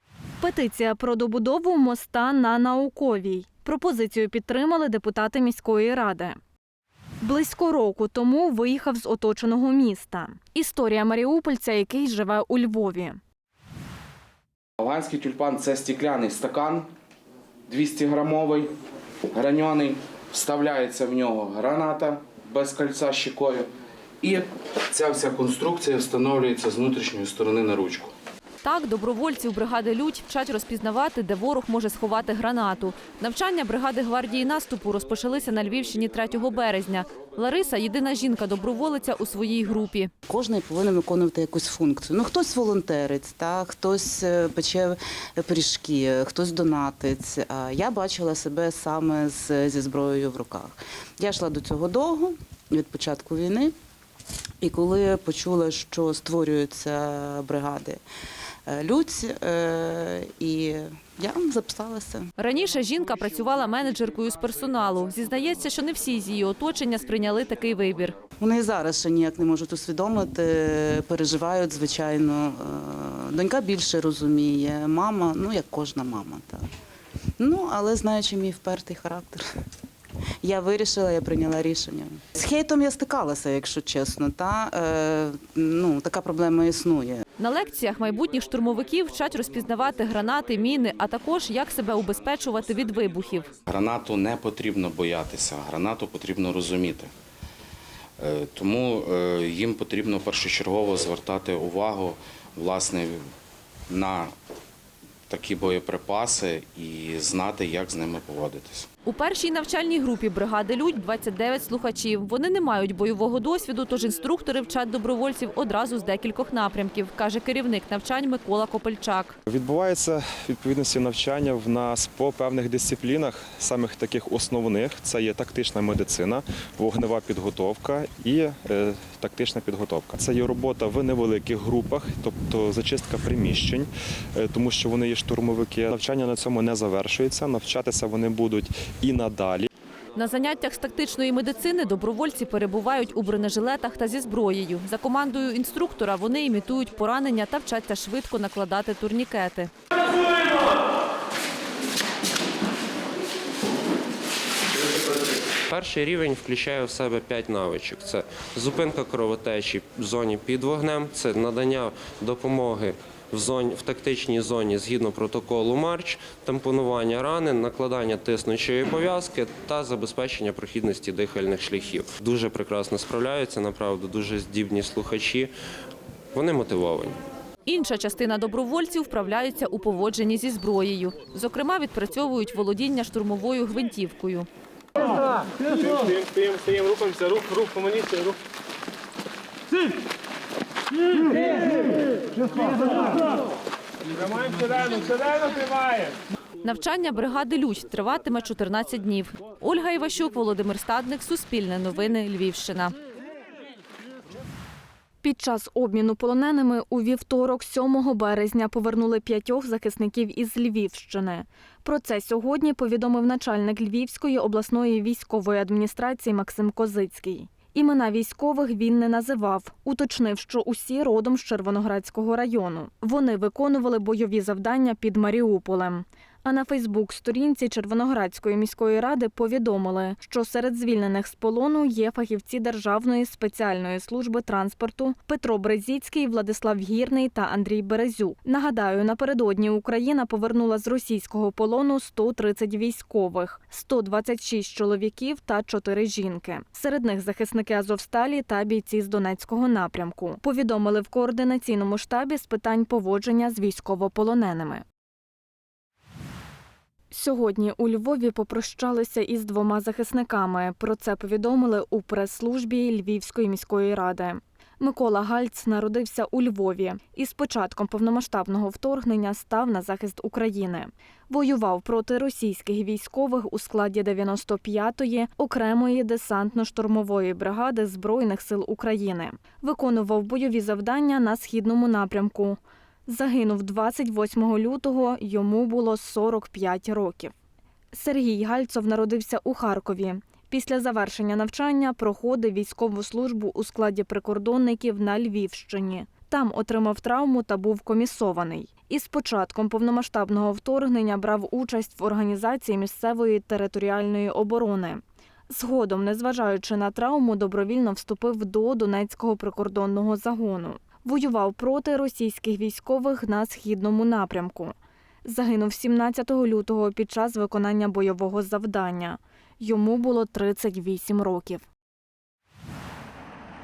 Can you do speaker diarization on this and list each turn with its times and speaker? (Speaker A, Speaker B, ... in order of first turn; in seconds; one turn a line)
Speaker A: 0.4-6.4
Speaker A: 7.2-13.2
Speaker B: 14.8-16.9
Speaker B: 17.7-18.7
Speaker B: 19.3-23.7
Speaker B: 24.2-28.1
Speaker C: 28.6-40.1
Speaker D: 40.3-53.7
Speaker D: 54.6-58.0
Speaker D: 58.7-62.3
Speaker C: 62.4-68.2
Speaker D: 68.4-76.7
Speaker D: 77.4-79.5
Speaker D: 80.4-87.2
Speaker C: 87.4-93.5
Speaker B: 93.7-97.1
Speaker B: 98.2-103.2
Speaker B: 103.9-104.3
Speaker B: 105.3-108.9
Speaker C: 109.0-119.4
Speaker E: 119.5-139.7
Speaker C: 140.2-149.7
Speaker F: 155.7-175.5
Speaker F: 176.4-177.1
Speaker C: 177.7-184.5
Speaker G: 185.9-188.3
Speaker C: 196.6-202.9
Speaker A: 205.2-254.8
Speaker A: 257.1-287.3
Speaker A: 287.9-321.6